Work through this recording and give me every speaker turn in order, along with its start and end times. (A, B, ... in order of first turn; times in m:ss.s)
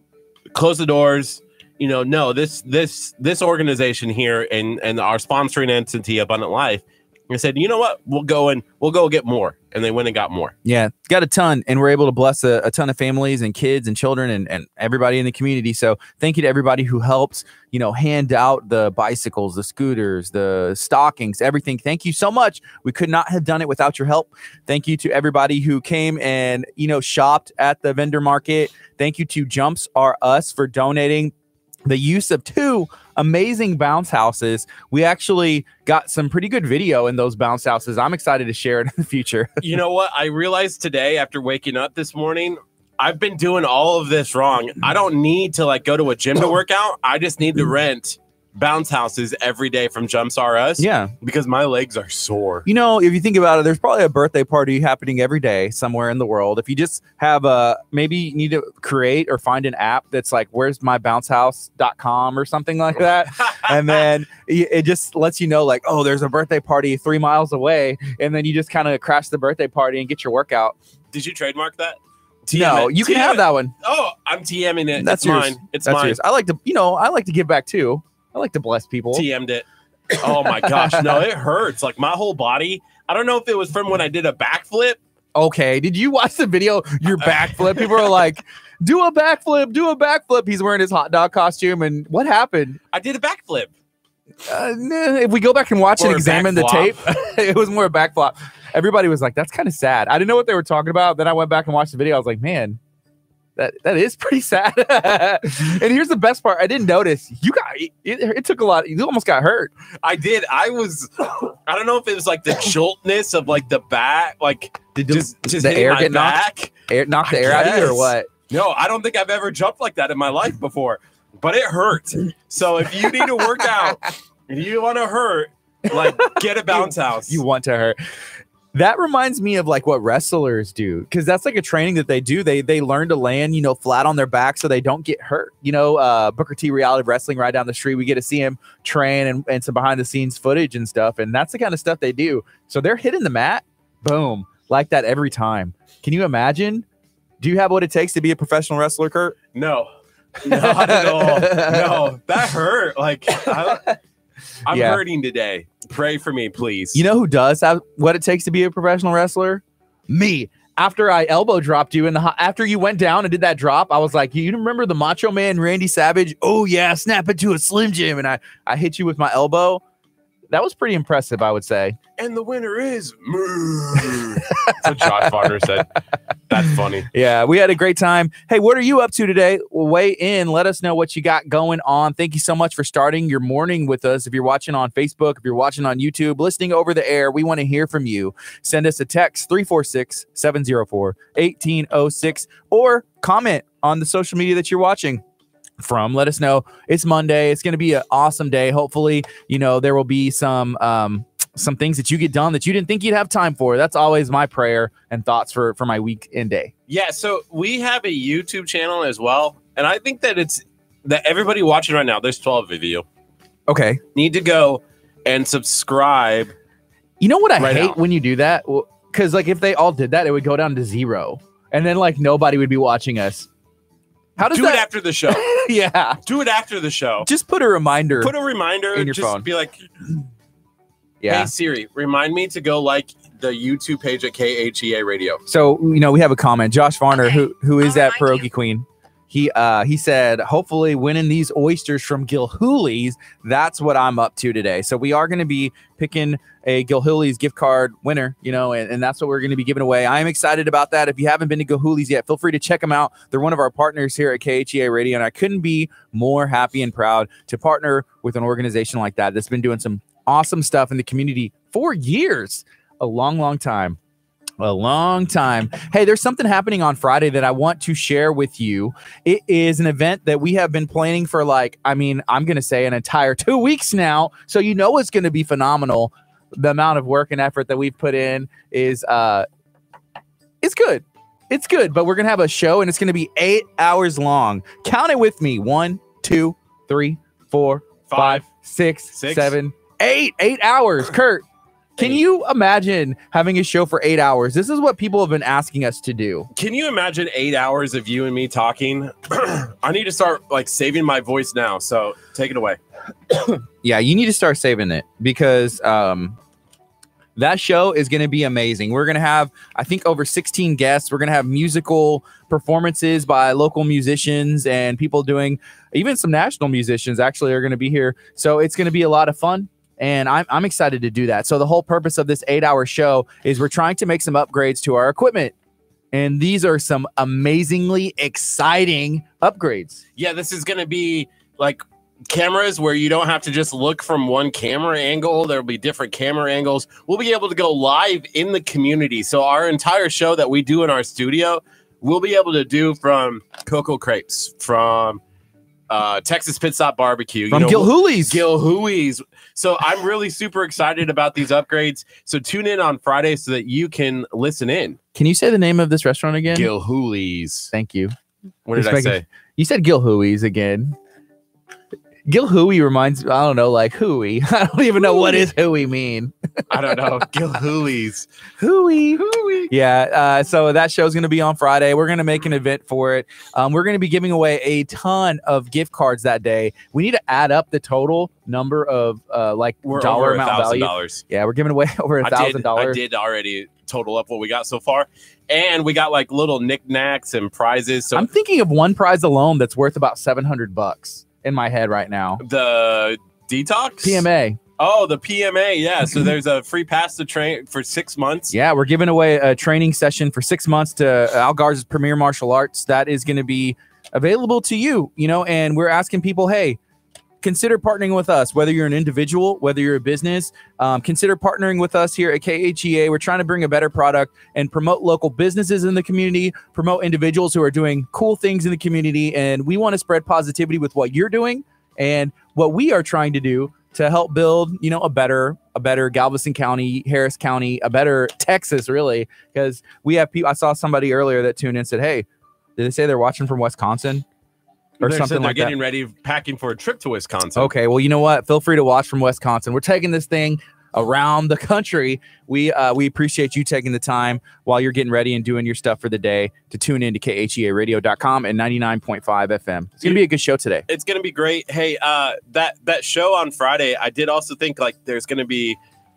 0:00.5-0:10.5 A
0:10.6-0:31.3 B
0:31.8-0:39.6 B
0:39.6-0:52.6 A
0:50.8-0:51.1 B
0:52.6-1:10.7 B
1:03.4-1:04.0 A
1:11.1-1:16.2 A
1:12.5-1:13.7 B
1:15.0-1:19.2 B
1:19.1-1:19.6 A
1:20.2-1:25.0 A
1:25.3-1:32.8 B
1:27.7-1:28.0 A
1:32.9-1:33.7 A
1:34.5-1:42.8 B
1:36.0-1:37.0 A
1:43.6-1:49.7 B
1:50.0-1:56.7 A
1:54.9-1:58.3 B
1:57.2-2:07.4 A
2:05.9-2:08.0 B
2:08.7-2:26.8 B
2:27.4-2:29.4 B
2:29.5-2:29.9 A
2:30.4-2:33.9 A
2:30.5-2:32.0 B
2:34.7-2:37.0 A
2:34.7-2:35.0 B
2:36.9-2:49.8 B
2:50.5-2:52.0 B
2:52.2-2:55.9 A
2:54.5-2:55.5 B
2:56.5-2:57.1 A
2:57.1-3:15.2 B
3:15.8-3:26.7 B
3:26.9-3:33.0 A
3:33.7-3:34.0 B
3:34.1-3:36.5 A
3:37.2-3:43.5 B
3:37.6-3:38.0 A
3:44.4-3:46.2 B
3:44.4-3:45.4 A
3:46.2-3:47.3 A
3:47.2-3:48.4 B
3:48.2-3:49.8 A
3:48.9-3:49.5 B
3:51.2-3:51.5 B
3:51.3-3:55.4 A
3:55.5-4:24.0 B
4:24.6-4:39.5 B
4:40.6-4:51.4 B
4:48.1-4:48.4 A
4:49.1-4:49.6 A
4:52.0-4:56.5 B
4:56.5-5:02.8 A
5:03.4-5:06.4 B
5:07.4-5:25.5 B
5:26.1-5:30.0 B
5:30.2-5:45.2 A
5:45.9-5:55.0 A
5:47.5-5:48.4 B
5:55.1-5:56.7 B
5:56.5-5:57.7 A
5:57.7-5:58.1 B
5:58.6-5:59.2 A
5:58.7-6:01.0 B
6:02.3-6:06.3 B
6:06.7-6:08.3 A
6:08.6-6:23.0 B
6:09.2-6:09.7 A
6:19.8-6:21.2 A
6:22.2-6:28.3 A
6:28.1-6:32.4 B
6:32.4-6:34.2 A
6:34.0-6:34.6 B
6:34.8-6:38.5 A
6:38.5-6:46.8 B
6:47.4-7:14.2 B
7:15.0-7:15.7 B
7:15.0-7:17.7 A
7:17.6-7:30.8 B
7:30.9-7:35.8 A